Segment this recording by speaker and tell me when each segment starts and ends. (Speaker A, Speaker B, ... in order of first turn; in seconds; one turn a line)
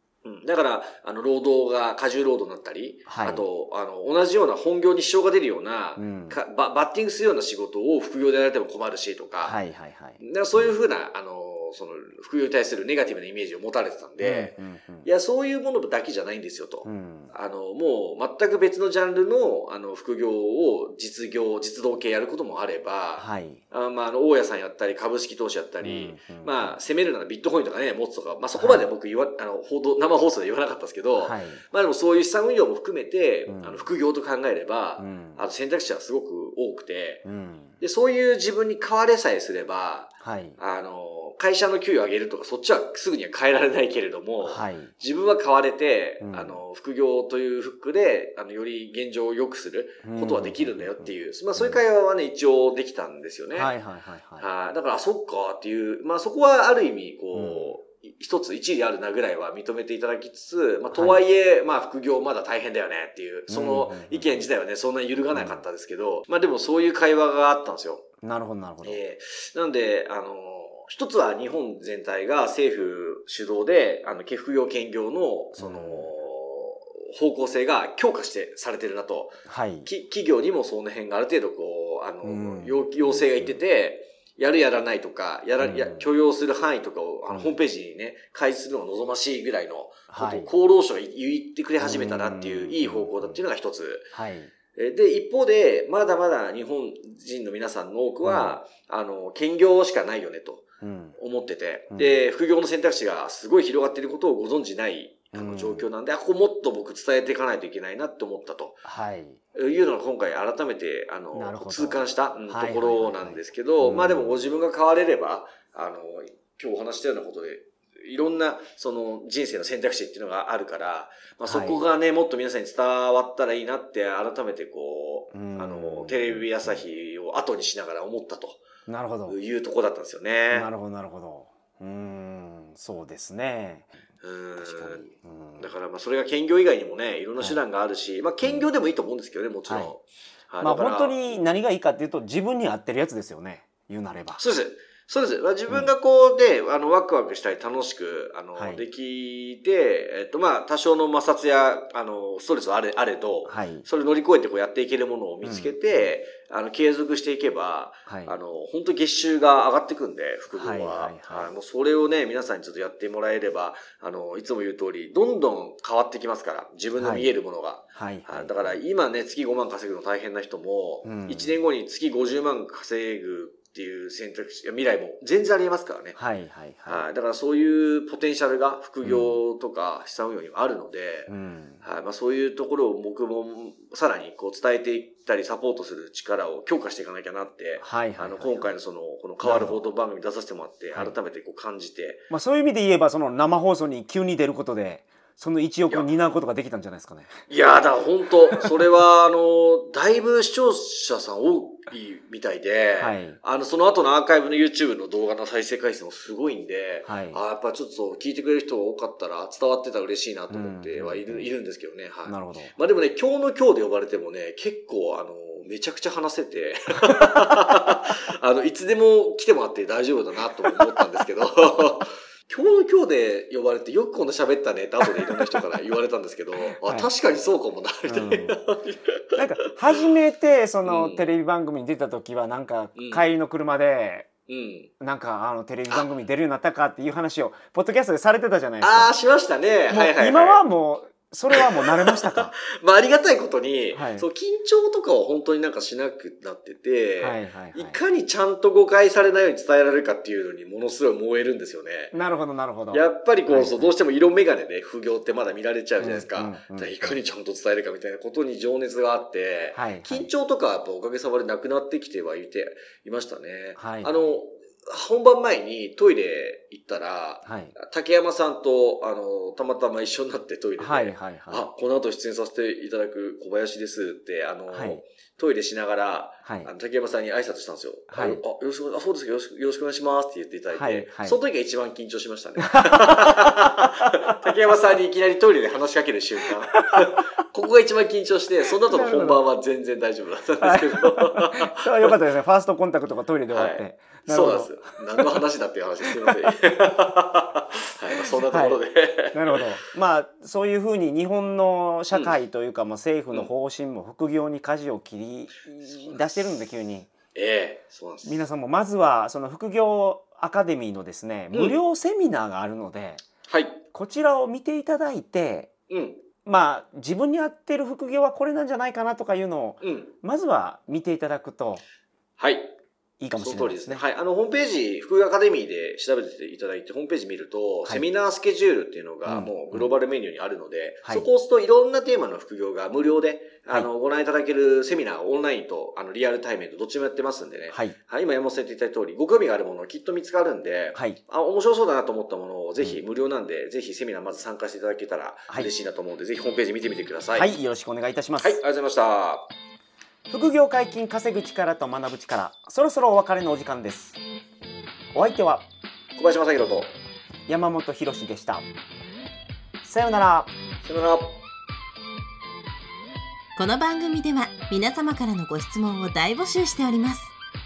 Speaker A: 0.2-9.6
Speaker B: 3.1-3.5
Speaker B: 6.0-6.4
Speaker B: 9.4-10.8
Speaker A: 10.2-37.2
Speaker B: 14.2-15.1
Speaker B: 16.9-17.3
Speaker B: 23.2-23.6
Speaker B: 25.8-26.8
Speaker B: 28.6-28.9
Speaker B: 31.2-31.6
Speaker B: 33.5-33.9
Speaker B: 35.0-35.4
Speaker B: 37.2-37.8
Speaker A: 37.8-53.7
Speaker B: 40.2-40.6
Speaker B: 44.4-44.9
Speaker B: 46.2-46.6
Speaker B: 50.0-51.8
Speaker B: 53.5-54.5
Speaker A: 54.4-68.0
Speaker B: 57.3-57.8
Speaker B: 60.9-61.2
Speaker B: 63.5-64.5
Speaker B: 65.3-65.7
Speaker B: 68.2-69.0
Speaker A: 68.8-94.1
Speaker B: 75.6-76.1
Speaker B: 79.5-79.9
Speaker B: 82.2-83.6
Speaker B: 85.6-86.1
Speaker B: 87.3-87.6
Speaker B: 90.1-90.5
Speaker B: 91.8-93.4
Speaker B: 94.1-94.5
Speaker A: 94.7-100.7
Speaker B: 98.2-98.6
Speaker B: 100.8-101.2
Speaker A: 101.2-108.9
Speaker B: 101.9-102.2
Speaker B: 105.3-105.9
Speaker B: 108.8-109.4
Speaker A: 109.5-128.6
Speaker B: 111.3-114.5
Speaker B: 121.4-121.8
Speaker B: 125.3-126.8
Speaker B: 128.9-129.4
Speaker A: 129.3-130.7
Speaker B: 130.5-133.9
Speaker A: 134.2-141.3
Speaker B: 134.6-135.7
Speaker B: 138.4-138.7
Speaker B: 139.7-139.9
Speaker B: 140.6-144.4
Speaker A: 144.4-176.2
Speaker B: 148.6-148.8
Speaker B: 153.4-153.9
Speaker B: 155.4-156.1
Speaker B: 158.1-158.3
Speaker B: 160.5-161.5
Speaker B: 167.0-167.3
Speaker B: 168.0-168.8
Speaker B: 171.0-171.6
Speaker B: 176.2-177.1
Speaker A: 176.9-192.2
Speaker B: 179.0-179.4
Speaker B: 181.3-181.8
Speaker B: 187.8-188.7
Speaker B: 189.4-189.8
Speaker B: 192.3-197.4
Speaker A: 197.5-230.1
Speaker B: 203.0-203.4
Speaker B: 207.1-207.4
Speaker B: 210.5-211.5
Speaker B: 212.2-212.7
Speaker B: 225.1-225.7
Speaker B: 226.6-227.1
Speaker B: 228.1-228.6
Speaker B: 229.4-234.3
Speaker A: 230.8-231.3
Speaker A: 233.0-233.2
Speaker A: 234.5-234.9
Speaker B: 235.0-239.2
Speaker A: 238.8-240.6
Speaker B: 239.9-242.5
Speaker A: 241.5-252.2
Speaker B: 243.9-244.3
Speaker B: 247.2-248.0
Speaker B: 252.1-253.9
Speaker A: 252.9-292.2
Speaker B: 256.0-257.2
Speaker B: 259.7-260.3
Speaker B: 263.8-264.4
Speaker B: 267.4-267.7
Speaker B: 270.8-271.7
Speaker B: 274.7-275.0
Speaker B: 276.4-276.7
Speaker B: 278.1-278.4
Speaker B: 280.7-281.4
Speaker B: 282.6-284.4
Speaker B: 288.9-289.4
Speaker B: 290.6-295.3
Speaker A: 293.5-299.7
Speaker B: 298.3-298.8
Speaker B: 299.3-307.1
Speaker A: 302.1-302.4
Speaker A: 306.0-306.5
Speaker A: 307.4-308.5
Speaker B: 308.2-313.2
Speaker A: 311.5-311.8
Speaker A: 313.5-313.8
Speaker B: 313.9-315.7
Speaker A: 315.9-316.2
Speaker B: 316.4-321.8
Speaker A: 319.8-320.1
Speaker A: 322.4-322.7
Speaker B: 323.2-324.0
Speaker A: 323.3-347.5
Speaker B: 329.3-329.9
Speaker B: 347.3-348.6
Speaker A: 348.4-349.5
Speaker B: 350.3-354.2
Speaker B: 355.1-355.7
Speaker A: 356.2-356.9
Speaker B: 357.5-358.6
Speaker B: 359.8-360.5
Speaker A: 360.8-361.4
Speaker C: 363.6-367.3